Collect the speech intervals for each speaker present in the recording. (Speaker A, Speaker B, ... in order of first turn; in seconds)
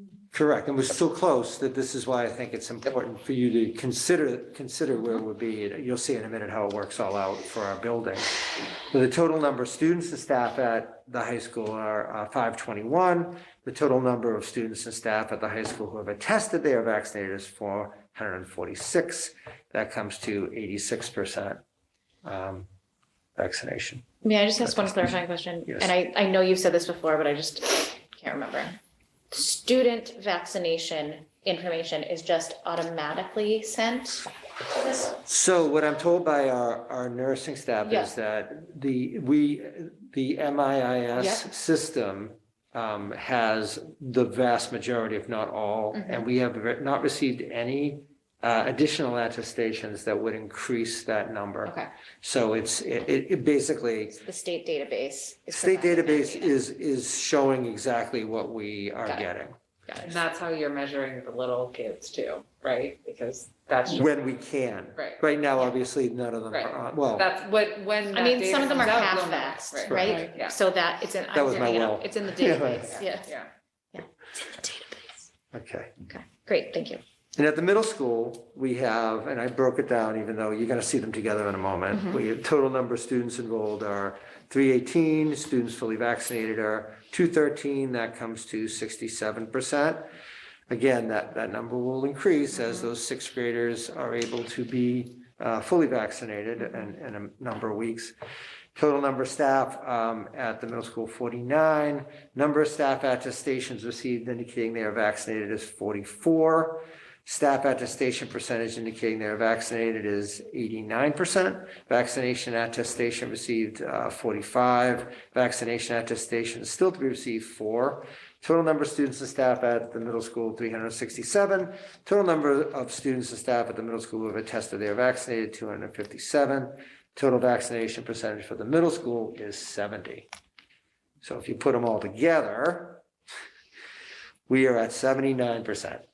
Speaker A: 0.3-21.6, 22.2-22.7, 23.4-24.1, 24.6-25.1, 35.2-54.1, 55.5-59.5, 63.9-67.3, 69.8-70.2, 71.3-73.0, 75.5-75.9, 77.3-90.1, 90.7-98.1, 98.7-130.3, 131.2-133.0, 134.5-136.0
Speaker B: 24.2-28.8, 29.3-35.2, 37.8-38.1, 45.9-46.2, 54.1-56.5, 59.9-60.2, 68.1-73.3, 73.9-75.2, 76.1-77.0, 81.9-82.2
Speaker C: 60.1-64.0, 66.5-70.5, 71.4-73.5